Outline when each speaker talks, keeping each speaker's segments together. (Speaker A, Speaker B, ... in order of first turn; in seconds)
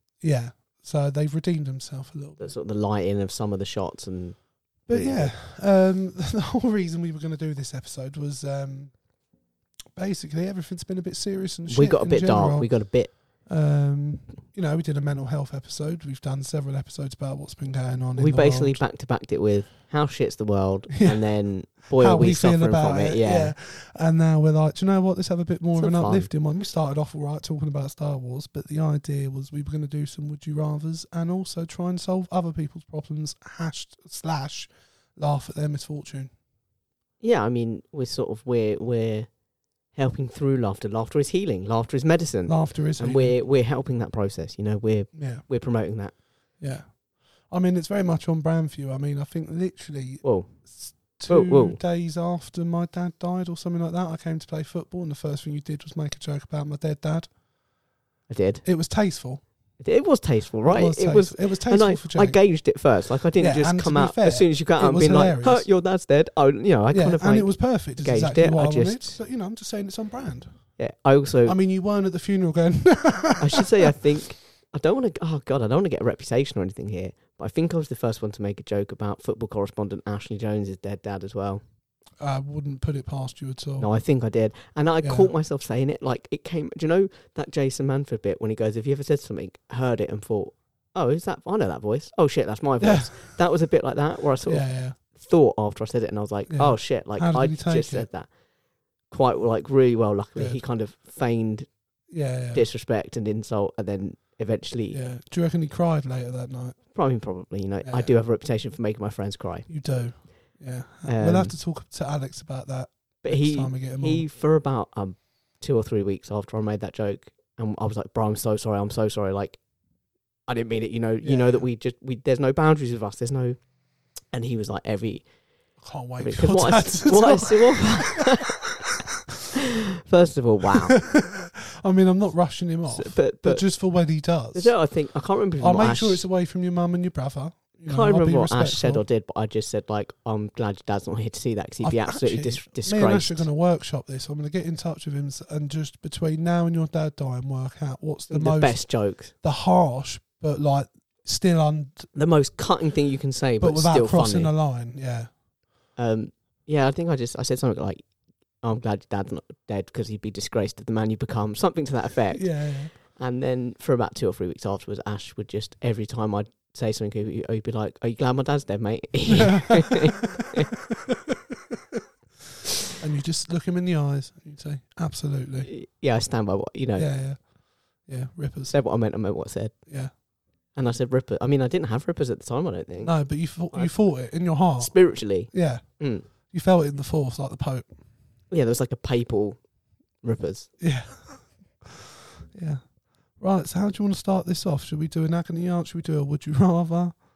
Speaker A: 0.2-2.5, 4.9-9.0, 9.9-12.7, 13.4-18.8, 20.9-21.2, 21.9-36.3, 42.5-43.4, 45.1-45.4, 46.6-47.0, 47.5-57.3, 58.6-59.4, 60.6-62.4, 63.4-65.7, 66.9-70.7, 71.4-73.9, 82.2-83.9, 85.0-85.3, 92.8-93.2, 94.5-95.0, 96.5-98.1, 102.1-102.6, 104.9-106.8, 107.8-108.1, 109.7-114.2, 121.2-121.6, 125.8-128.3, 130.9-134.7, 135.6-139.0, 141.8-152.1, 153.6-155.3, 162.3-162.9, 169.3-172.0, 173.0-175.7, 177.0-177.4, 178.0-178.7, 179.9-180.1, 183.0-184.9, 185.5-185.8, 186.5-187.9, 190.8-192.8, 193.4-197.2
Speaker B: 2.4-5.3, 11.7-13.1, 18.1-23.5, 25.8-26.3, 37.2-39.3, 39.9-46.1, 50.2-50.5, 51.1-51.8, 58.3-58.6, 59.8-69.2, 70.8-71.6, 73.4-81.6, 83.8-98.3, 99.1-101.7, 102.5-105.0, 106.9-109.7, 111.0-111.5, 113.2-119.6, 120.5-123.6, 124.3-125.2, 126.2-128.9, 130.1-130.9, 132.9-133.6, 134.5-136.2, 137.9-143.5, 148.3-149.3, 152.1-154.5, 155.9-158.0, 158.6-170.7, 175.6-177.1, 178.7-179.7, 180.7-183.1, 184.8-186.3, 188.5-189.6, 190.2-190.7